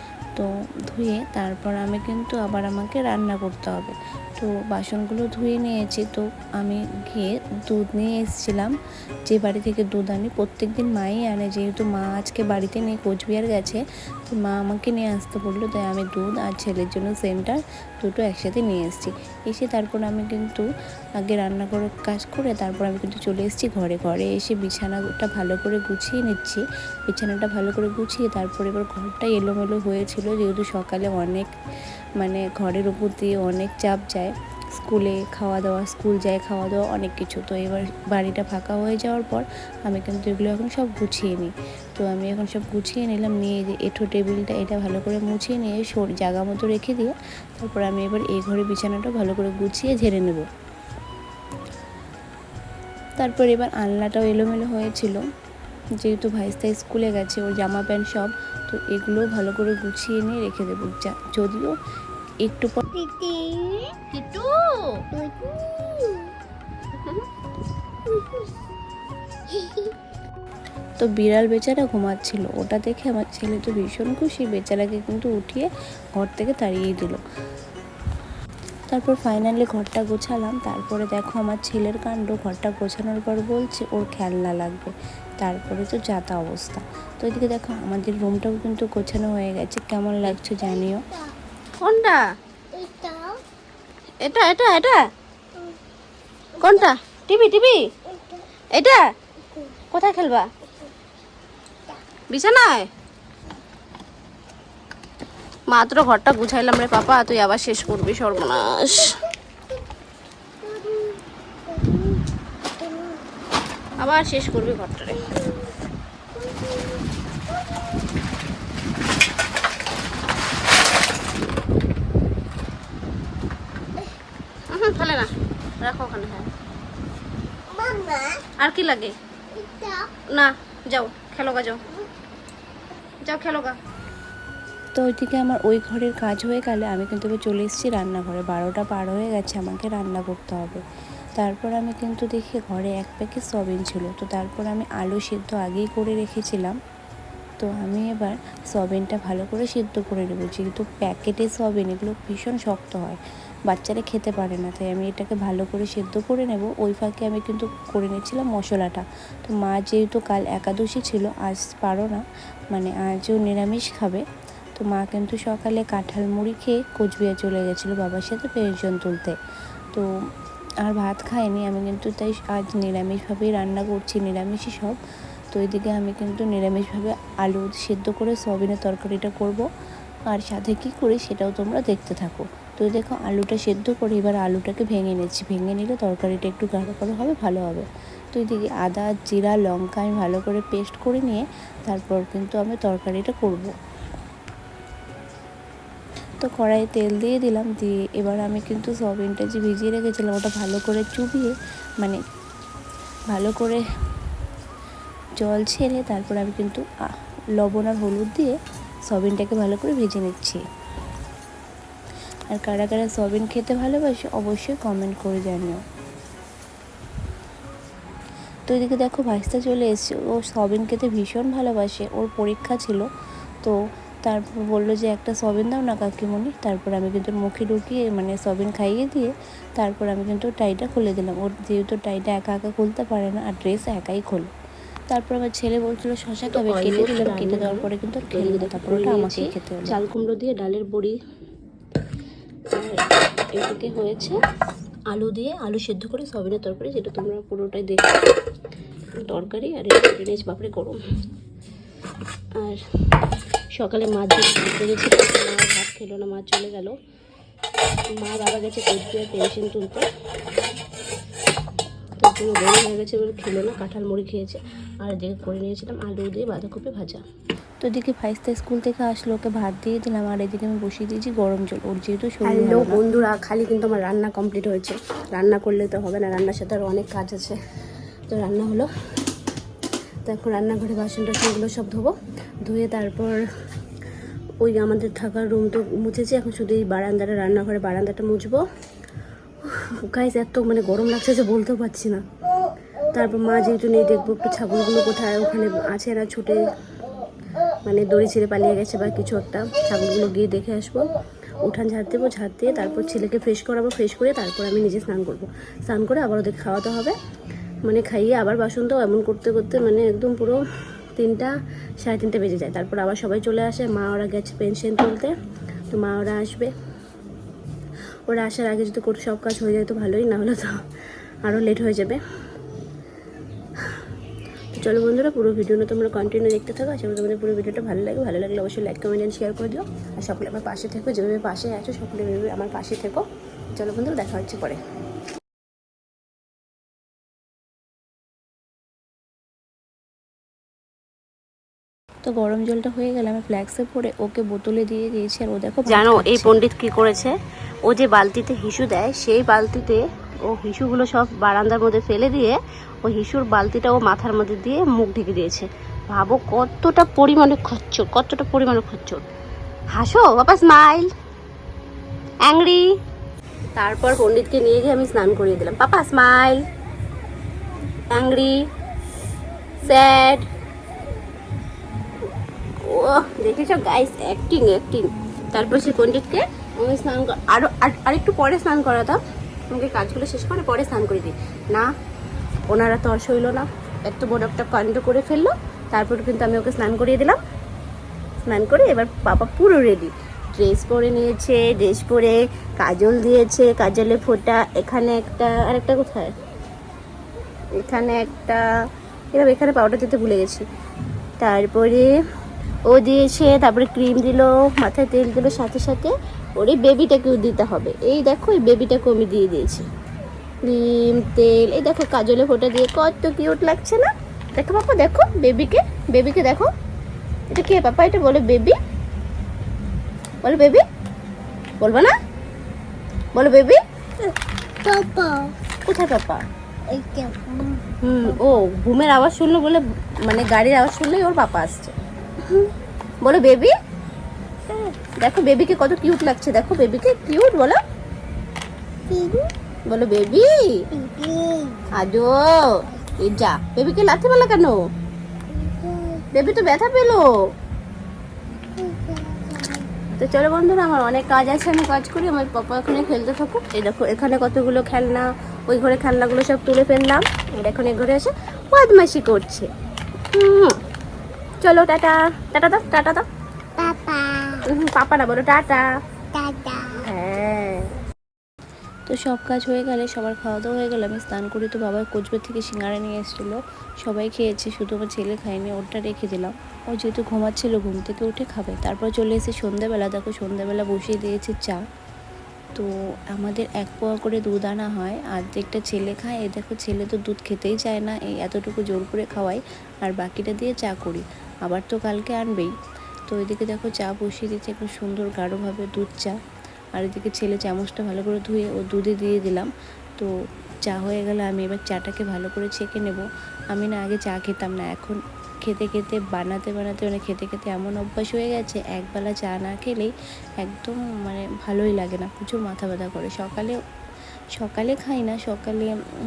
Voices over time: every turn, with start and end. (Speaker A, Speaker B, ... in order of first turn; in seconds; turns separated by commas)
Speaker A: 0.3-8.7, Speaker A: 9.3-20.6, Speaker A: 21.2-31.5, Speaker A: 32.2-50.5, Speaker A: 53.2-55.2, Speaker A: 56.0-61.7, Speaker A: 62.5-62.8, Speaker B: 62.9-64.0, Speaker C: 64.1-64.7, Speaker B: 65.2-66.2, Speaker B: 69.5-69.9, Speaker A: 71.0-77.2, Speaker A: 78.9-91.0, Speaker C: 91.8-92.2, Speaker B: 92.7-93.4, Speaker C: 94.2-95.0, Speaker C: 96.6-97.9, Speaker C: 98.7-99.1, Speaker C: 99.9-100.5, Speaker C: 102.3-102.9, Speaker C: 105.7-109.2, Speaker B: 110.7-111.0, Speaker B: 111.7-112.1, Speaker C: 114.0-115.4, Speaker C: 124.7-126.5, Speaker B: 127.8-128.4, Speaker C: 128.4-129.2, Speaker B: 129.6-130.1, Speaker C: 130.3-131.8, Speaker C: 133.2-133.8, Speaker A: 134.9-140.8, Speaker A: 141.4-146.8, Speaker A: 147.6-153.2, Speaker A: 153.7-164.2, Speaker A: 164.8-169.4, Speaker A: 170.8-175.0, Speaker A: 175.5-179.6, Speaker A: 180.3-193.7, Speaker A: 196.4-202.2, Speaker A: 203.3-203.8, Speaker A: 205.4-206.8, Speaker A: 207.6-208.6, Speaker A: 209.1-210.6, Speaker A: 212.5-215.8, Speaker A: 218.7-223.1, Speaker A: 223.6-234.5, Speaker A: 235.1-240.0, Speaker C: 236.5-241.2, Speaker C: 242.7-243.0, Speaker C: 243.6-244.4, Speaker C: 245.1-248.3, Speaker C: 249.2-251.2, Speaker C: 252.6-253.2, Speaker C: 253.7-257.0, Speaker C: 258.1-260.1, Speaker C: 262.2-267.2, Speaker A: 267.8-273.0, Speaker C: 272.4-277.6, Speaker C: 278.3-278.9, Speaker C: 280.2-282.1, Speaker C: 282.6-283.5, Speaker C: 284.6-288.6, Speaker C: 289.6-292.2, Speaker C: 293.1-296.7, Speaker C: 297.9-301.1, Speaker C: 301.6-307.2, Speaker C: 307.9-310.6, Speaker C: 311.2-315.3, Speaker C: 315.9-316.7, Speaker C: 318.3-320.8, Speaker C: 321.4-322.2, Speaker C: 323.8-324.1, Speaker C: 324.7-334.8, Speaker A: 342.3-346.5, Speaker C: 345.9-359.3, Speaker C: 359.9-361.1, Speaker C: 362.4-362.9, Speaker C: 363.8-366.6, Speaker C: 368.1-368.6, Speaker C: 369.8-370.5, Speaker C: 372.8-381.9, Speaker C: 382.7-387.4, Speaker C: 388.5-396.3, Speaker C: 397.8-398.6, Speaker C: 399.3-400.7, Speaker C: 401.4-402.1, Speaker C: 402.9-409.9, Speaker C: 410.6-416.7, Speaker C: 417.5-418.8, Speaker C: 420.4-420.9, Speaker C: 421.8-422.1, Speaker C: 423.3-424.3, Speaker B: 424.8-425.5, Speaker C: 425.8-426.5, Speaker B: 426.9-428.0, Speaker C: 428.0-433.8, Speaker C: 434.7-437.8, Speaker B: 439.1-439.5, Speaker C: 439.9-440.9, Speaker B: 440.9-441.9, Speaker C: 441.9-444.8, Speaker B: 445.5-446.4, Speaker C: 446.3-447.3, Speaker B: 448.8-449.9, Speaker C: 450.1-459.7, Speaker C: 460.3-460.8, Speaker C: 461.6-463.3, Speaker B: 463.8-464.6, Speaker C: 464.7-465.9, Speaker B: 466.3-467.1, Speaker C: 467.0-467.9, Speaker A: 469.1-481.8, Speaker A: 482.8-492.7, Speaker A: 493.3-496.4, Speaker A: 496.9-500.3, Speaker A: 500.9-513.7, Speaker A: 514.6-515.9